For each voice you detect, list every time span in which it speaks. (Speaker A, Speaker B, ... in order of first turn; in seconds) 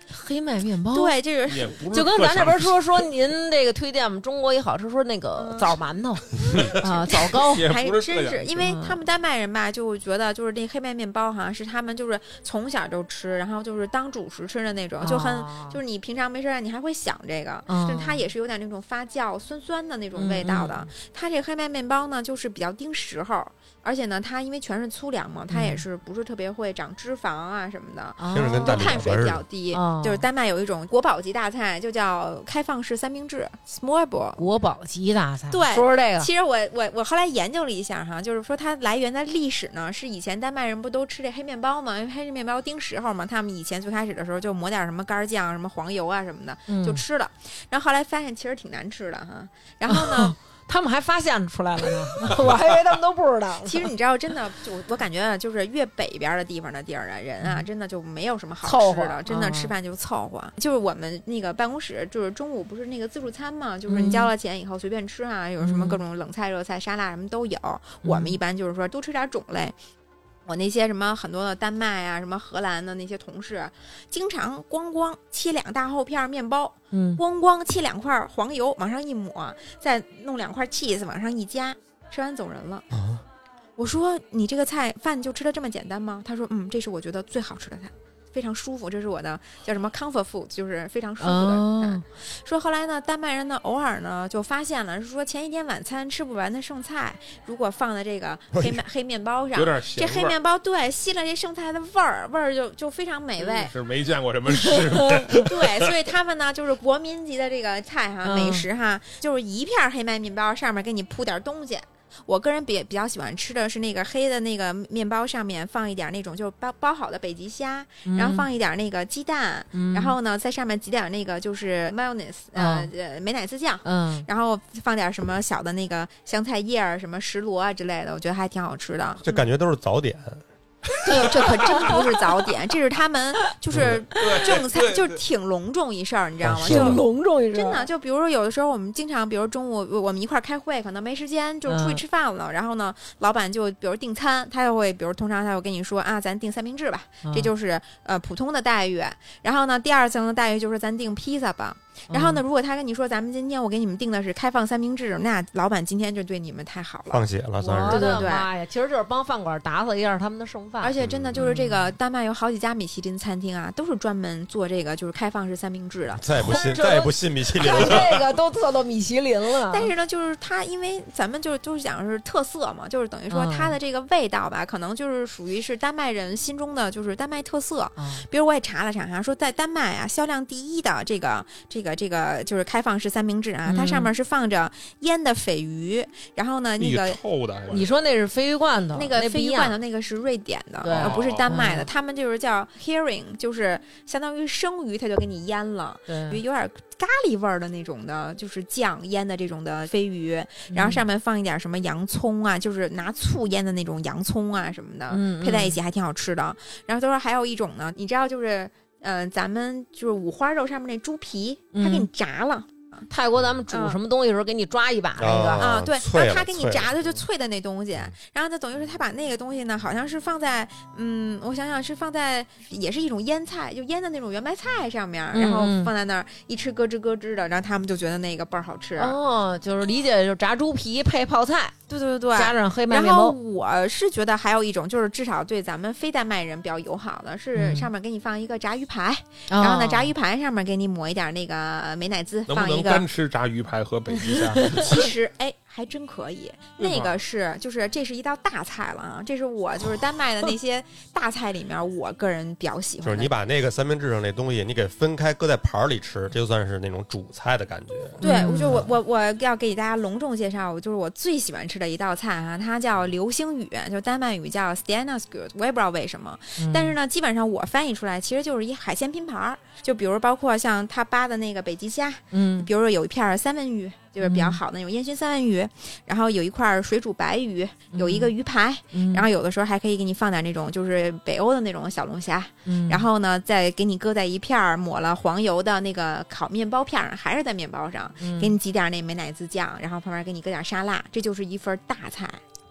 Speaker A: 0.1-1.2, 1.9-7.7, 8.6-9.0, 15.0-15.8, 17.7-18.2, 20.2-20.9, 25.5-25.8, 28.2-29.1, 29.7-30.2, 34.4-36.3, 46.7-47.0, 49.9-53.9, 58.6-59.7, 63.9-64.3, 65.6-66.0, 68.0-68.4, 76.9-77.2, 91.2-92.0, 104.8-105.4, 108.2-108.7, 118.1-118.5, 119.7-120.2, 122.6-122.9, 123.8-124.3, 131.1-132.0, 136.6-137.8, 141.7-142.0, 147.2-147.5, 152.1-152.4, 157.6-161.9, 166.4-169.9, 173.3-173.8, 178.0-178.3, 183.7-184.1, 187.7-189.8, 190.8-191.9, 196.1-196.4, 200.7-201.0, 205.1-205.8, 211.7-212.1, 213.1-215.7, 225.3-225.9, 229.0-231.8, 232.3-233.4, 237.6-237.9, 239.5-240.1, 258.2-258.9, 266.6-266.9, 272.3-272.7, 274.2-274.6, 277.9-278.3, 278.9-279.3, 282.6-283.1, 288.2-288.5
Speaker B: 0.9-1.8, 5.4-5.8, 6.5-34.4, 35.5-50.4, 53.6-69.8, 70.5-82.8, 83.8-103.7, 105.3-129.5, 131.1-158.5, 160.8-167.1, 169.7-187.2, 188.9-213.0, 213.7-214.0, 215.6-229.2, 231.9-243.1, 244.2-253.3, 258.2-292.4
Speaker C: 1.5-2.8, 6.6-8.6, 99.5-100.3, 103.5-105.9, 134.2-135.2, 186.8-187.9, 190.9-191.5, 242.5-245.0, 246.8-247.2
Speaker D: 28.3-29.4, 82.9-83.2, 98.5-98.8, 129.2-130.4, 133.7-134.0, 136.4-137.0, 157.1-158.3, 161.0-161.4, 166.1-168.3, 215.2-216.9, 253.0-258.2